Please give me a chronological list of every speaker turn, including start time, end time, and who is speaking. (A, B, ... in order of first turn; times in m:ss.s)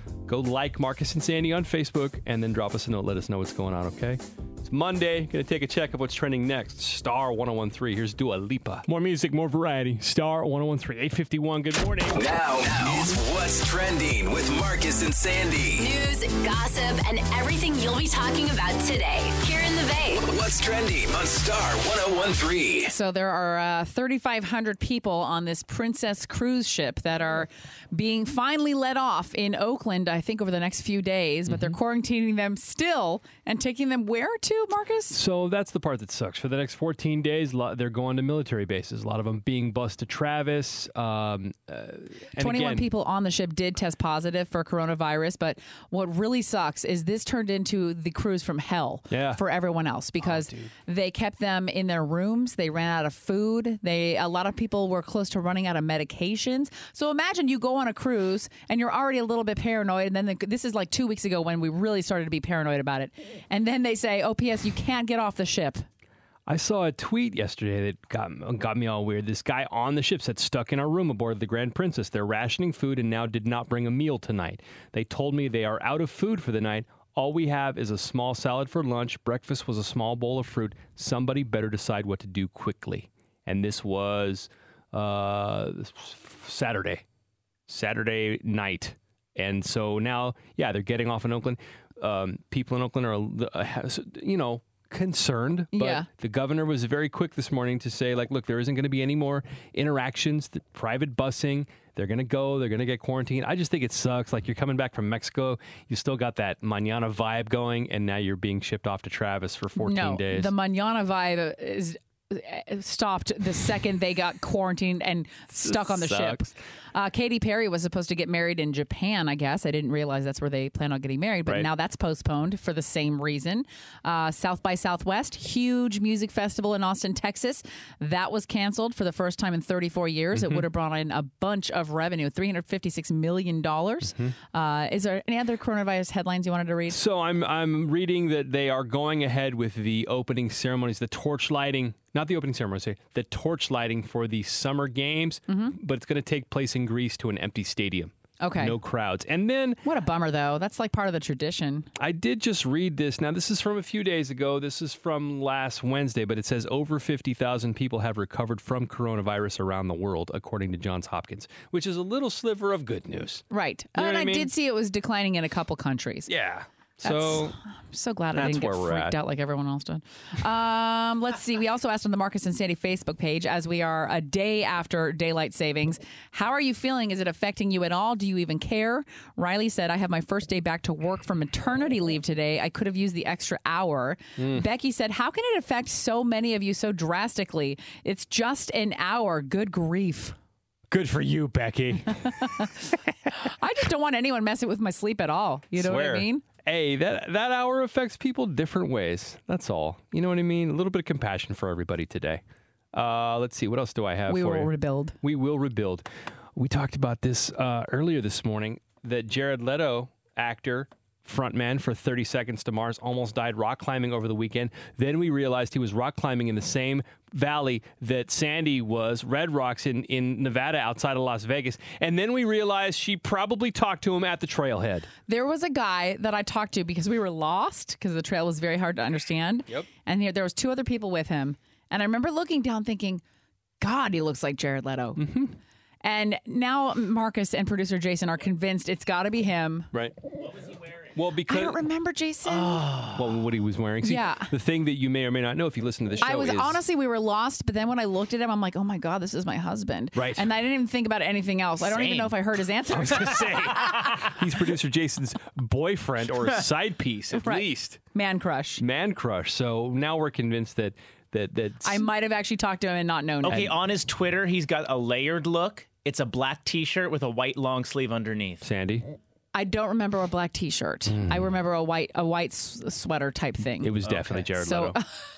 0:00.3-0:12.3 A
0:12.2-0:15.9 B
0:15.8-0:20.2 C
0:20.2-0:22.9 B
0:22.9-0:35.2 D
0:31.5-0:31.8 A
0:35.1-0:42.9 A
0:42.4-1:05.8 D
0:49.1-0:49.4 A
0:50.2-0:50.7 A
1:06.5-1:27.0 A
1:27.7-1:50.5 A
1:35.7-1:36.1 D
1:49.8-2:17.0 D
1:55.6-1:56.6 A
2:10.3-2:10.7 A
2:16.9-2:29.8 A
2:25.5-2:25.8 D
2:28.4-2:28.8 D
2:29.8-2:31.9 D
2:32.0-2:43.4 A
2:43.5-2:46.3 D
2:44.0-2:44.5 A
2:46.3-2:47.6 A
2:47.0-3:10.4 D
2:48.4-2:49.2 A
3:04.4-3:04.6 A
3:10.9-3:12.7 A
3:12.4-3:12.8 D
3:13.3-3:16.4 D
3:15.7-3:22.4 A
3:22.9-3:45.1 A
3:24.3-3:25.2 D
3:45.3-3:53.2 D
3:53.8-3:55.2 D
3:55.2-3:55.6 A
3:56.0-3:59.9 D
4:01.2-4:01.8 A
4:01.5-4:03.0 D
4:02.7-4:03.2 E
4:03.2-4:06.8 A
4:04.0-4:04.5 D
4:06.2-4:14.3 D
4:10.2-4:10.5 A
4:12.9-4:18.0 A
4:17.4-4:18.8 D
4:18.8-4:22.0 A
4:21.8-4:23.7 D
4:23.4-4:28.6 E
4:28.6-4:29.1 A
4:29.5-4:33.9 D
4:31.1-4:31.5 A
4:33.8-4:35.0 A
4:34.1-4:34.5 E
4:34.6-4:35.0 D